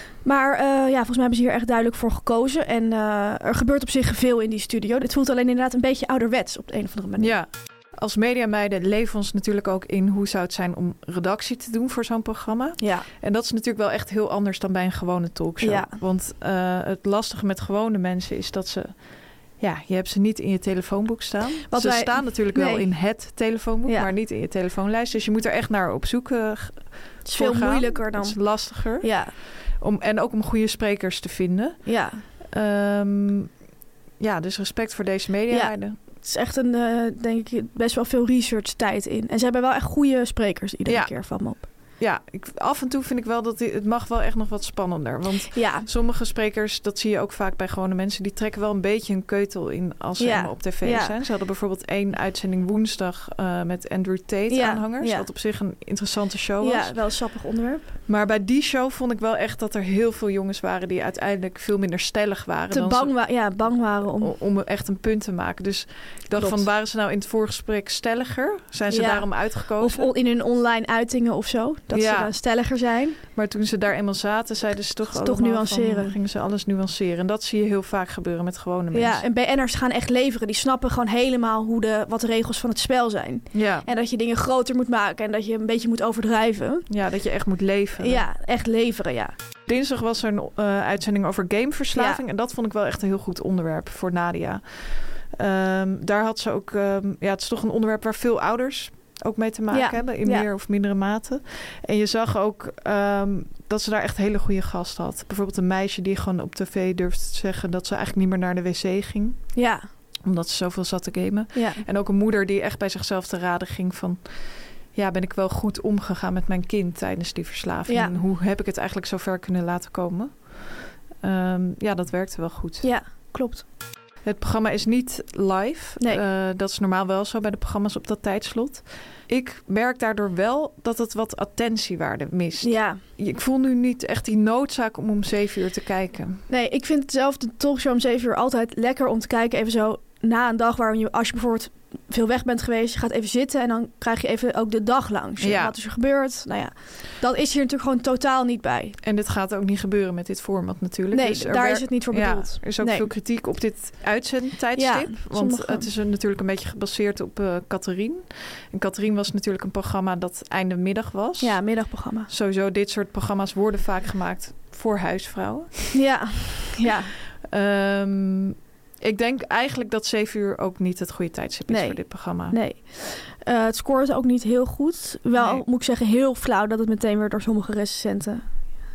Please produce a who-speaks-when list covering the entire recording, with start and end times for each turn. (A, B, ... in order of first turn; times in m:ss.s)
0:00.2-0:07.4 A
0:07.2-0:19.0 B
0:12.8-0:13.1 A
0:15.6-0:16.0 A
0:19.6-0:33.5 B
0:21.7-0:22.9 A
0:23.8-0:24.1 A
0:27.2-0:29.3 A
0:31.9-0:32.2 A
0:34.2-0:36.0 B
0:35.5-0:41.6 A
0:40.9-0:57.0 B
0:45.5-0:45.9 A
0:50.2-0:51.2 A
0:54.5-0:55.3 A
0:56.6-0:57.9 A
0:58.1-1:03.2 B
1:02.7-1:04.3 A
1:04.1-1:10.1 B
1:06.3-1:06.7 A
1:08.9-1:13.2 A
1:11.9-1:12.3 B
1:13.4-1:19.2 B
1:15.1-1:16.1 A
1:18.9-1:26.9 A
1:23.5-1:23.9 B
1:26.9-1:28.2 B
1:28.0-1:29.3 A
1:29.7-1:49.5 B
1:32.0-1:32.2 A
1:39.7-1:40.5 A
1:49.6-1:49.9 A
1:50.2-2:02.9 B
1:51.5-1:51.8 A
1:57.9-1:58.2 A
2:02.8-2:03.6 A
2:04.2-2:16.4 B
2:12.6-2:13.0 A
2:16.5-2:29.0 A
2:25.4-2:25.8 B
2:29.0-2:41.6 B
2:31.1-2:33.1 A
2:34.8-2:35.9 A
2:41.4-2:42.3 A
2:42.3-2:46.0 B
2:45.9-2:47.1 A
2:47.4-2:52.6 B
2:51.7-2:58.5 A
2:55.3-2:55.6 B